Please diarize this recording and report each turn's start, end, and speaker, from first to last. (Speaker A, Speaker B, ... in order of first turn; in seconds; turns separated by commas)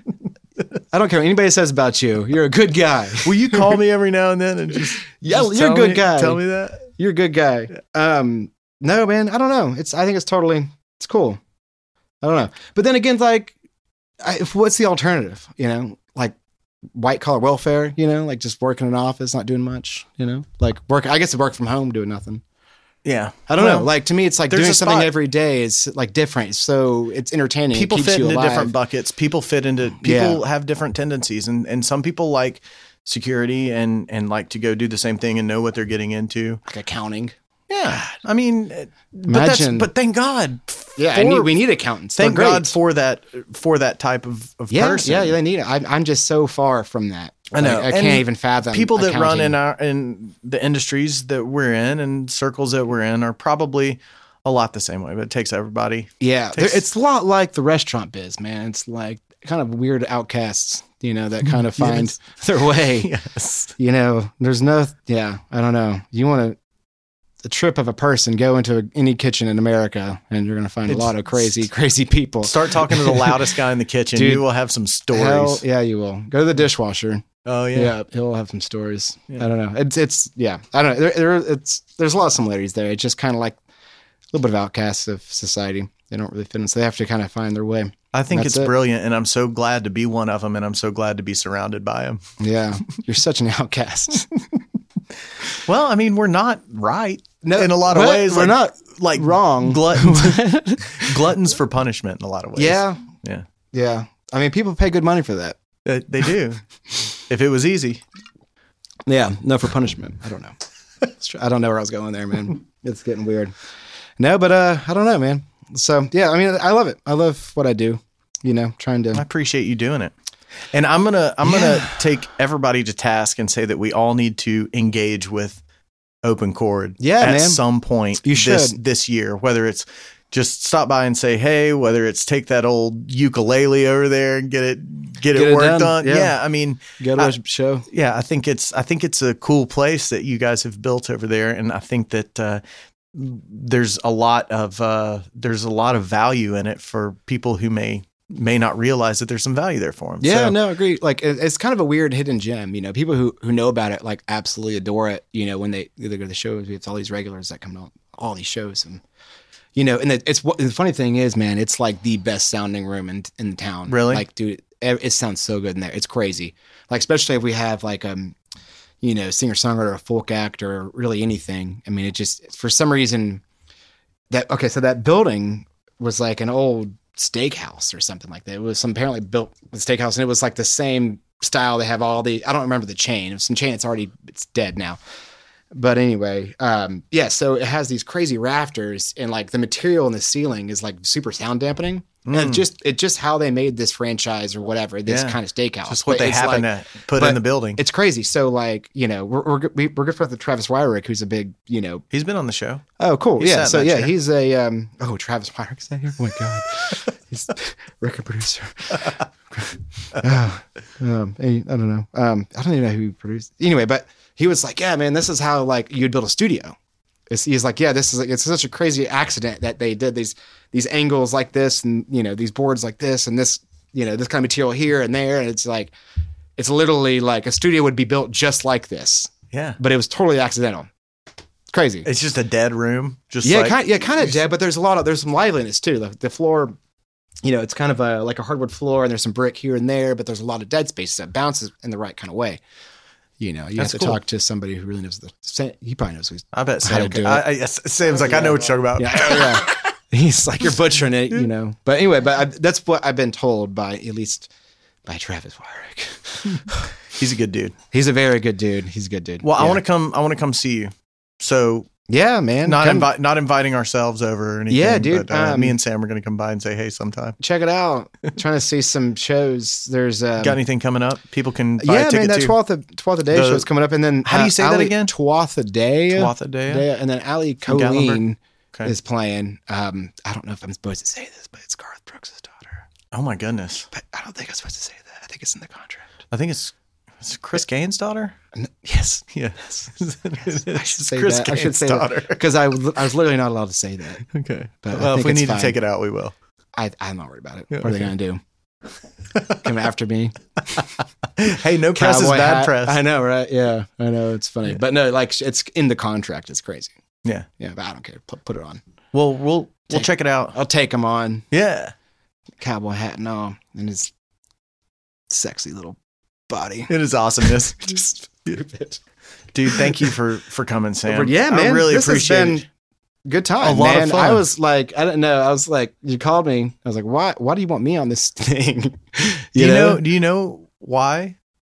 Speaker A: 0.9-3.8, Speaker B: 3.2-6.8, Speaker A: 5.1-11.4, Speaker A: 12.2-13.5, Speaker A: 14.2-16.4, Speaker A: 16.9-22.4, Speaker B: 23.1-23.9, Speaker A: 23.5-28.7, Speaker B: 24.5-25.1, Speaker B: 27.7-36.6, Speaker A: 30.0-30.4, Speaker A: 36.7-37.4, Speaker B: 37.7-41.6, Speaker A: 37.9-38.1, Speaker A: 39.3-39.9, Speaker A: 41.0-42.7, Speaker B: 42.1-45.4, Speaker A: 44.7-49.6, Speaker B: 47.5-56.8, Speaker A: 56.2-63.1, Speaker B: 61.5-62.2, Speaker B: 63.0-63.7, Speaker A: 63.8-66.6, Speaker A: 67.4-73.4, Speaker B: 70.9-71.6, Speaker B: 72.4-75.6, Speaker A: 74.1-74.4, Speaker A: 75.1-83.6, Speaker B: 77.4-77.9, Speaker A: 84.3-88.7, Speaker B: 88.1-92.2, Speaker A: 92.4-94.6, Speaker B: 95.6-103.4, Speaker A: 97.4-101.2, Speaker A: 102.6-103.0, Speaker A: 103.7-105.6, Speaker B: 105.8-106.6, Speaker B: 107.3-108.0, Speaker A: 109.1-113.5, Speaker A: 114.2-119.2, Speaker B: 119.1-120.1, Speaker B: 120.7-125.6, Speaker A: 121.4-121.9, Speaker B: 126.2-137.3, Speaker A: 127.0-127.6, Speaker A: 128.2-128.8, Speaker A: 135.3-136.3, Speaker A: 136.9-137.8, Speaker B: 137.9-142.6, Speaker B: 143.1-150.6, Speaker A: 150.2-159.0, Speaker A: 159.7-168.3, Speaker B: 163.9-164.2, Speaker A: 169.0-173.4, Speaker A: 174.3-185.0, Speaker A: 185.7-202.1, Speaker B: 192.3-192.6, Speaker B: 195.1-197.8, Speaker B: 202.1-202.8, Speaker A: 203.0-216.8, Speaker B: 203.4-204.1, Speaker A: 217.3-225.9, Speaker A: 226.6-230.9, Speaker B: 229.5-229.8, Speaker A: 231.7-232.1, Speaker B: 232.0-234.4, Speaker A: 233.4-236.8, Speaker A: 237.4-242.6, Speaker A: 243.4-247.5, Speaker B: 243.8-244.2, Speaker B: 246.5-249.9, Speaker A: 248.1-254.5, Speaker A: 255.1-256.9, Speaker B: 256.4-257.7, Speaker A: 257.9-259.8, Speaker B: 259.4-261.9, Speaker A: 262.1-263.1, Speaker B: 262.6-267.4, Speaker A: 264.7-265.8, Speaker A: 267.4-270.6, Speaker B: 270.4-272.6, Speaker A: 271.8-282.8, Speaker B: 273.3-273.7, Speaker B: 274.2-275.1, Speaker B: 276.1-276.9, Speaker B: 277.7-278.9, Speaker B: 283.1-283.9, Speaker A: 283.9-286.1, Speaker B: 286.3-288.4, Speaker A: 288.6-289.9, Speaker B: 289.3-292.4, Speaker A: 290.4-294.2, Speaker B: 294.3-296.3, Speaker A: 294.8-295.8, Speaker A: 296.7-298.4, Speaker B: 297.7-298.0, Speaker A: 299.6-300.8, Speaker B: 301.4-303.0, Speaker A: 301.9-306.9, Speaker A: 307.6-308.8, Speaker B: 309.1-310.6, Speaker A: 309.9-311.5, Speaker B: 311.5-311.9, Speaker A: 312.6-314.1, Speaker A: 315.3-316.0, Speaker A: 316.5-316.9, Speaker B: 316.9-318.0, Speaker A: 317.7-319.0, Speaker B: 319.5-322.6, Speaker A: 319.8-320.1, Speaker A: 321.1-322.6, Speaker A: 323.2-330.0, Speaker B: 323.6-324.4, Speaker B: 329.6-331.4